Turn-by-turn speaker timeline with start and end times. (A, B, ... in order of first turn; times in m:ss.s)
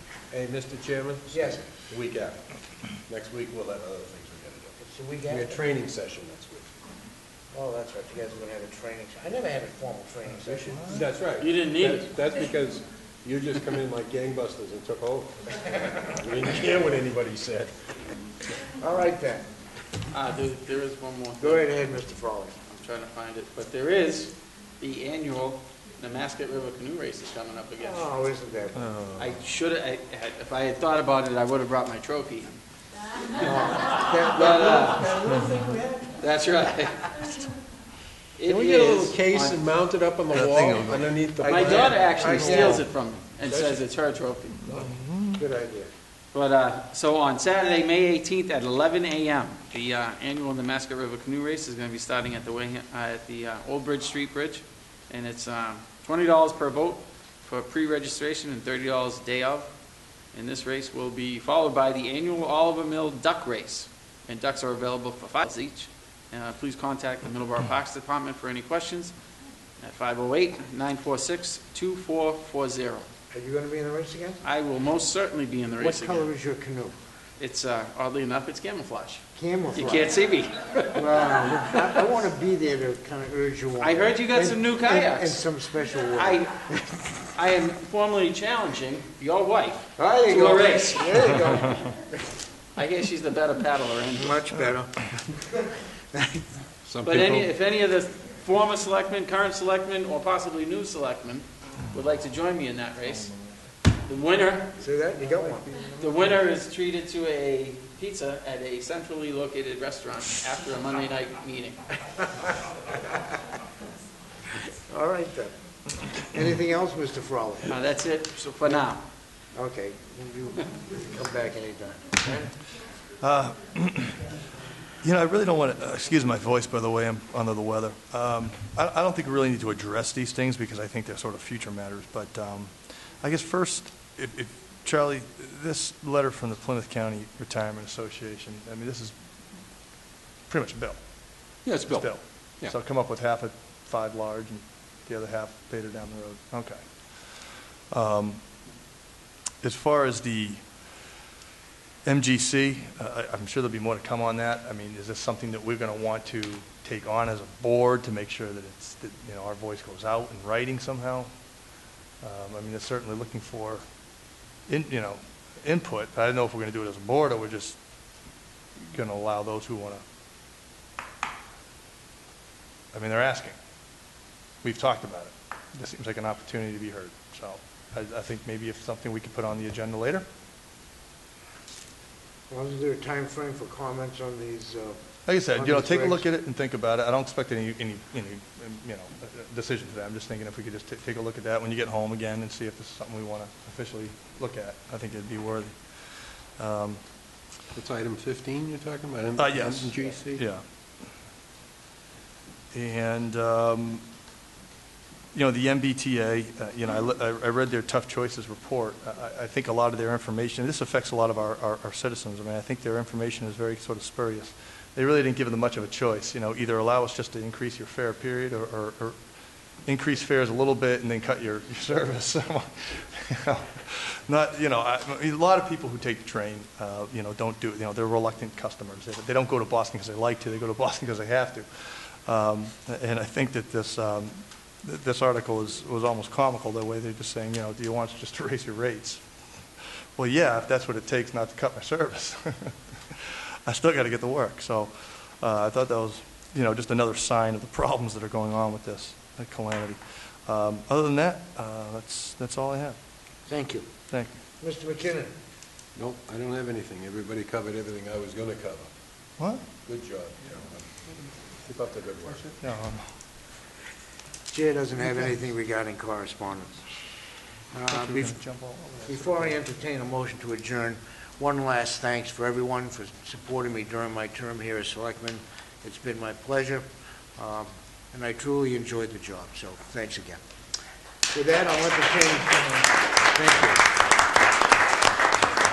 0:00.3-0:02.4 A
0:01.3-0:01.7 B
0:03.1-0:04.8 A
0:04.8-0:05.6 B
0:05.3-0:06.7 A
0:07.5-0:11.0 B
0:10.6-0:15.5 A
0:10.7-0:11.0 C
0:11.4-0:12.1 D
0:16.0-0:17.8 A
0:18.8-0:19.5 B
0:20.1-0:21.7 D
0:21.4-0:22.6 B
0:22.7-0:28.0 D
0:27.8-0:28.8 B
0:28.8-0:29.4 C
0:29.2-0:32.6 D
0:33.4-0:36.2 B
0:34.3-0:35.1 D
0:36.2-0:37.0 D
0:38.4-0:39.7 D
0:38.5-0:42.5 A
0:40.3-0:41.1 C
0:41.4-0:44.6 D
0:41.4-0:42.9 B
0:43.5-0:43.8 A
0:44.7-0:45.4 C
0:45.4-0:45.9 B
0:46.3-0:59.7 D
1:00.3-1:09.1 D
1:09.8-1:13.1 D
1:13.3-1:14.4 B
1:14.4-1:16.3 D
1:15.8-1:17.0 B
1:17.4-1:19.2 D
1:19.4-1:20.1 B
1:19.7-1:21.8 D
1:20.9-1:27.1 B
1:23.8-1:25.4 D
1:26.1-1:26.5 D
1:27.4-1:31.4 D
1:30.0-1:31.9 B
1:32.8-1:34.4 D
1:34.2-1:36.4 B
1:36.9-1:37.5 A
1:37.0-1:43.3 D
1:44.1-1:44.8 D
1:44.8-1:45.7 B
1:46.0-1:51.9 D
1:52.2-1:53.0 B
1:54.8-1:55.5 B
1:56.2-1:57.8 B
1:57.7-1:59.0 D
1:59.6-2:02.5 B
2:03.2-2:04.3 C
2:05.0-2:12.7 C
2:13.2-2:19.1 C
2:20.5-2:21.0 C
2:21.6-2:22.7 A
2:21.8-2:26.8 C
2:27.9-2:28.4 C
2:29.6-2:30.6 C
2:32.1-2:41.3 C
2:42.2-2:43.8 C
2:44.7-2:47.8 C
2:48.9-2:50.0 C
2:52.9-2:53.6 C
2:54.6-3:00.3 C
3:02.5-3:05.0 B
3:05.3-3:17.0 C
3:05.5-3:06.2 B
3:17.8-3:20.4 A
3:19.4-3:20.6 C
3:22.7-3:24.0 C
3:25.4-3:39.2 C
3:39.9-3:59.2 C
4:00.2-4:13.0 C
4:13.5-4:13.9 B
4:14.6-4:15.3 B
4:16.0-4:18.9 A
4:19.4-4:19.6 C
4:19.9-4:21.0 A
4:21.6-4:22.5 A
4:22.6-4:23.1 C
4:24.5-4:26.8 B
4:27.7-4:28.4 B
4:27.9-4:29.6 C
4:29.1-4:36.9 B
4:37.4-4:40.4 B
4:41.3-4:43.9 B